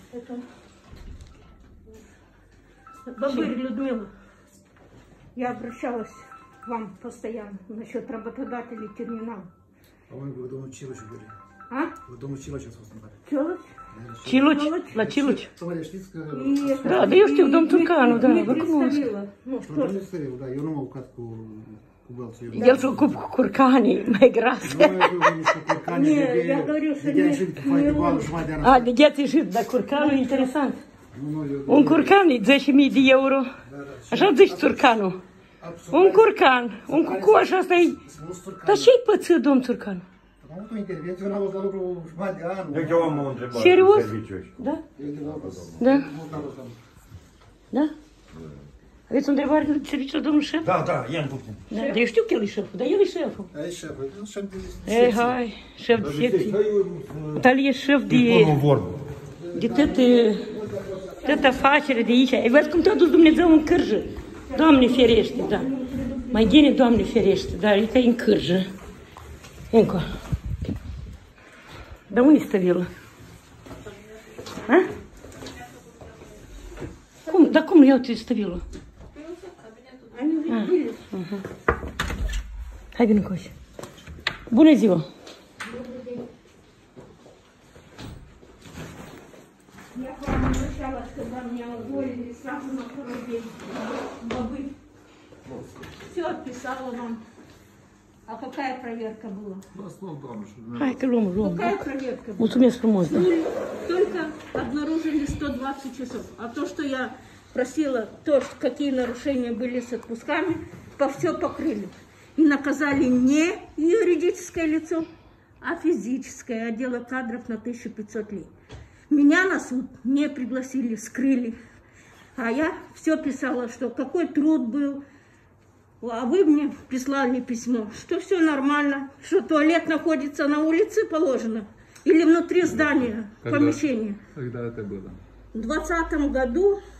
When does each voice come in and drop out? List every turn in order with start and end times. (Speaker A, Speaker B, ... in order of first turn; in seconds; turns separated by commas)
Speaker A: 0.1-0.4, Speaker A: 3.1-4.1, Speaker A: 5.3-9.5, Speaker B: 10.1-11.4, Speaker A: 11.7-12.0, Speaker B: 12.0-13.2, Speaker A: 13.3-13.7, Speaker B: 13.9-14.4, Speaker C: 14.2-15.5, Speaker A: 14.4-15.0, Speaker B: 15.0-16.7, Speaker A: 16.3-20.0, Speaker C: 16.8-19.1, Speaker B: 19.7-23.1, Speaker C: 22.5-25.5, Speaker A: 22.6-22.9, Speaker B: 24.6-28.9, Speaker A: 25.8-28.5, Speaker C: 28.6-30.8, Speaker A: 29.9-30.5, Speaker B: 31.1-32.1, Speaker C: 31.7-33.5, Speaker B: 33.6-34.8, Speaker C: 34.1-35.2, Speaker B: 35.6-36.3, Speaker C: 35.9-38.0, Speaker B: 36.9-38.9, Speaker C: 38.6-40.0, Speaker B: 40.4-43.3, Speaker D: 42.7-44.6, Speaker C: 43.5-44.8, Speaker B: 45.0-46.8, Speaker D: 45.2-46.5, Speaker C: 45.8-46.1, Speaker C: 49.1-50.8, Speaker D: 50.6-51.6, Speaker C: 51.7-53.5, Speaker B: 53.5-55.1, Speaker C: 54.9-56.6, Speaker D: 55.9-57.5, Speaker C: 57.4-58.6, Speaker D: 58.1-59.0, Speaker C: 59.5-60.6, Speaker B: 59.5-60.0, Speaker C: 61.2-65.7, Speaker A: 64.5-66.7, Speaker C: 66.3-68.7, Speaker C: 69.7-70.1, Speaker C: 72.1-72.9, Speaker C: 77.3-78.6, Speaker A: 79.4-81.1, Speaker C: 80.5-81.4, Speaker C: 83.0-83.5, Speaker C: 84.5-85.1, Speaker A: 85.6-86.2, Speaker A: 89.9-94.7, Speaker A: 96.0-97.2, Speaker A: 98.3-99.7, Speaker E: 99.7-101.1, Speaker C: 100.8-101.8, Speaker A: 101.4-115.1, Speaker C: 102.4-103.3, Speaker A: 115.6-118.5, Speaker A: 119.1-121.6, Speaker A: 122.4-125.0, Speaker A: 126.0-134.2, Speaker E: 132.6-135.2, Speaker A: 135.5-136.8